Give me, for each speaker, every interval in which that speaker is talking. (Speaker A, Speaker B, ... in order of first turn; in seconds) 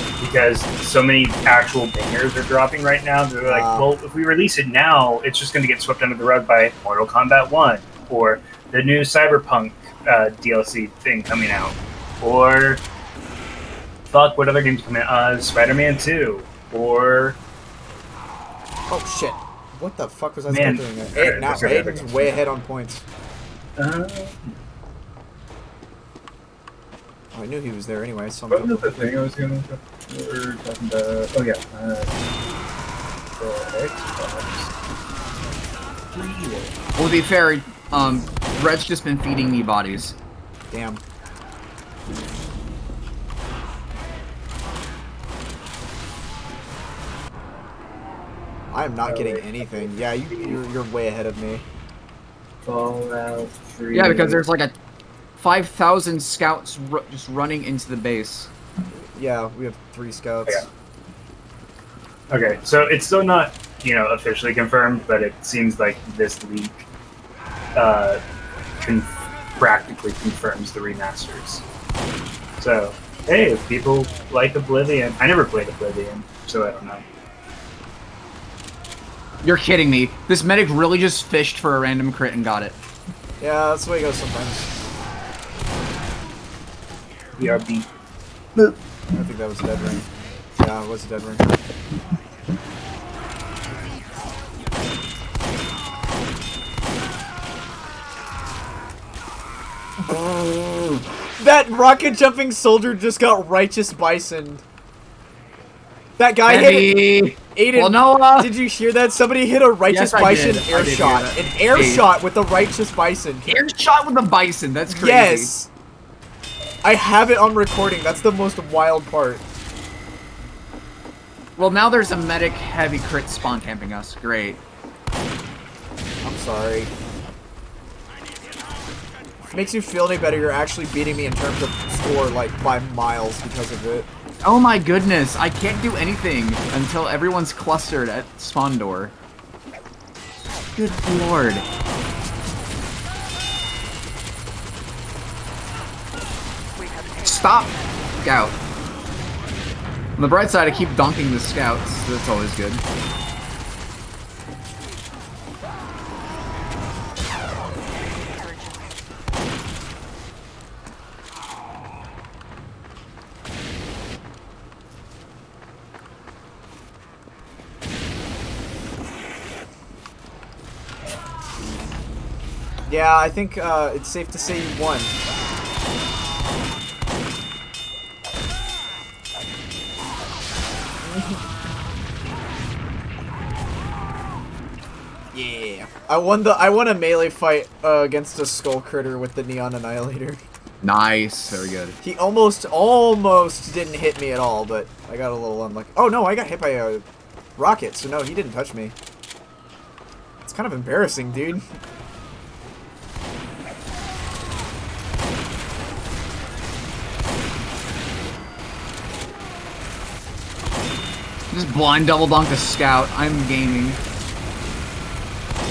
Speaker A: 0.2-12.8, 14.1-17.4, 20.5-22.4, 23.8-24.6, 28.5-32.3, 33.4-34.7, 36.1-36.8, 49.0-50.6, 52.6-54.4, 62.3-66.8, 67.8-68.2, 68.8-71.6, 72.6-77.0, 87.4-87.9
Speaker B: 3.5-3.9, 18.9-23.0, 27.3-28.9, 40.7-41.0, 48.7-51.6, 58.9-60.6, 83.4-84.7, 89.1-90.1, 90.6-91.5, 100.0-104.6, 106.2-113.7, 114.9-115.7, 116.8-119.4, 126.2-126.9, 129.5-134.1, 172.8-175.2, 181.1-181.4, 185.3-190.4, 192.0-197.0, 197.6-198.9, 200.4-201.6
Speaker C: 37.0-40.1, 53.9-54.7, 55.4-58.5, 79.4-82.8, 106.5-108.5, 109.9-112.1, 113.5-115.5, 121.6-124.6, 134.4-139.1, 140.7-141.7, 147.2-148.6, 150.2-152.8, 190.8-191.9, 211.5-214.0